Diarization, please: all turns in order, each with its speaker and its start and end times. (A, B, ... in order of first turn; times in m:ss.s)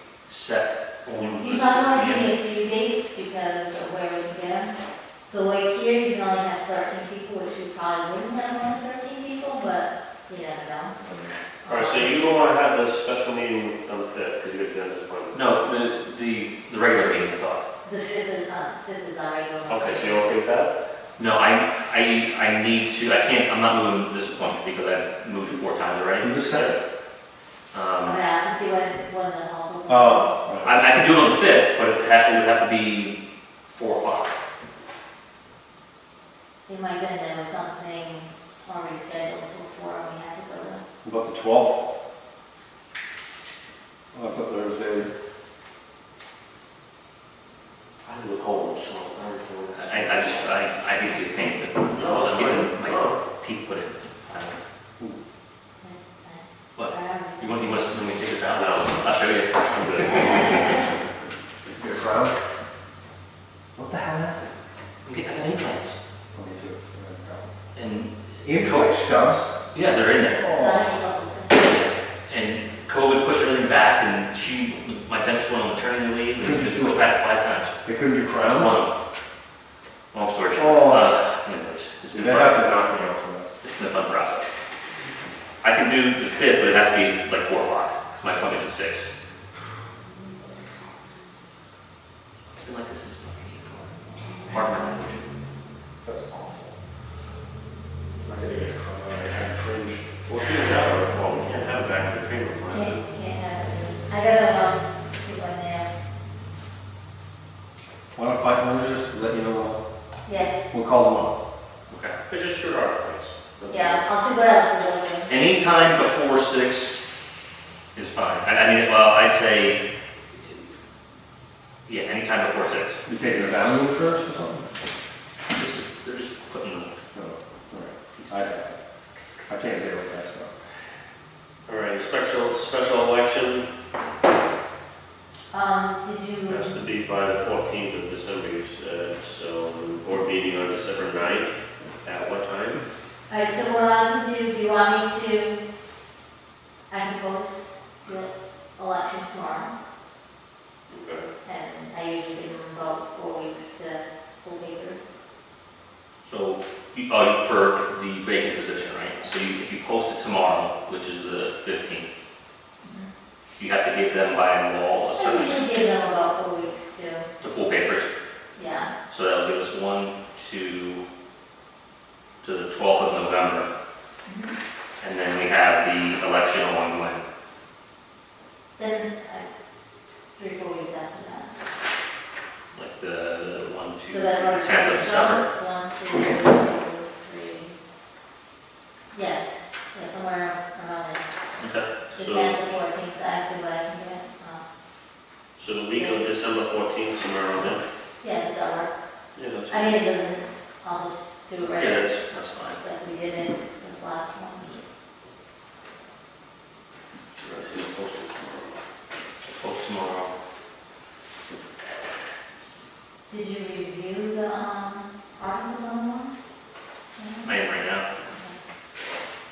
0:00.2-0:02.3 A
0:01.4-0:11.0 B
0:11.0-0:11.3 C
0:11.6-0:12.2 B
0:11.7-0:15.5 D
0:15.3-0:17.6 A
0:17.8-0:20.2 B
0:19.7-0:20.7 D
0:21.2-0:26.3 A
0:26.2-0:26.7 C
0:26.5-0:26.8 D
0:27.7-0:28.2 A
0:28.0-0:30.4 B
0:29.9-0:30.8 C
0:30.6-0:34.4 A
0:36.7-0:40.8 B
0:41.0-0:41.8 C
0:44.1-0:45.1 C
0:48.0-0:50.6 D
0:49.7-0:54.6 A
0:51.9-0:53.2 D
0:55.8-0:57.8 B
0:56.8-1:00.8 A
0:58.5-0:59.1 D
0:59.7-1:00.8 D
1:01.7-1:02.4 C
1:03.8-1:04.5 C
1:05.0-1:06.0 A
1:06.3-1:07.5 C
1:07.8-1:09.0 A
1:08.4-1:09.5 C
1:09.7-1:10.5 A
1:10.4-1:11.0 C
1:10.5-1:11.7 B
1:11.5-1:17.7 A
1:16.4-1:17.1 C
1:17.8-1:18.8 C
1:18.4-1:18.9 A
1:20.1-1:22.8 A
1:20.5-1:21.1 C
1:22.1-1:23.5 C
1:23.6-1:24.5 A
1:25.6-1:29.1 A
1:32.6-1:33.9 A
1:34.4-1:35.2 A
1:36.0-1:36.7 C
1:38.2-1:40.2 C
1:40.2-1:43.0 D
1:42.7-1:45.9 B
1:48.1-1:49.8 C
1:50.3-1:50.6 B
1:50.7-1:51.4 C
1:51.9-1:52.2 A
1:52.3-1:54.0 D
1:53.7-1:55.3 B
1:55.3-1:57.0 A
1:57.9-1:59.8 A
2:01.9-2:03.0 A
2:03.1-2:04.7 C
2:05.5-2:06.9 A
2:07.1-2:08.8 C
2:08.2-2:08.5 A
2:09.4-2:10.6 C
2:11.7-2:13.7 D
2:15.5-2:16.8 B
2:16.5-2:22.8 D
2:23.3-2:25.6 B
2:26.9-2:29.8 B
2:30.9-2:31.3 D
2:31.4-2:35.1 B
2:36.2-2:42.1 A
2:42.8-2:43.1 B
2:43.6-2:45.6 A
2:45.1-2:47.3 B
2:47.4-2:48.1 A
2:48.6-2:48.9 B
2:49.1-2:51.0 A
2:52.4-2:53.7 A
2:54.3-2:54.6 B
2:55.0-2:57.2 A
2:58.8-2:59.5 B
3:00.4-3:01.6 B
3:02.7-3:05.4 A
3:04.1-3:07.8 B
3:09.1-3:11.2 B
3:11.6-3:11.9 A
3:12.2-3:14.6 B
3:12.2-3:12.6 D
3:15.6-3:17.8 D
3:15.9-3:16.2 B
3:18.2-3:18.9 B
3:19.4-3:20.0 D
3:19.7-3:22.2 B
3:21.7-3:22.8 A
3:22.8-3:24.7 B
3:27.4-3:28.8 D
3:29.4-3:30.3 A
3:33.3-3:36.3 B
3:37.2-3:37.6 B
3:37.4-3:38.1 A
3:38.3-3:38.6 B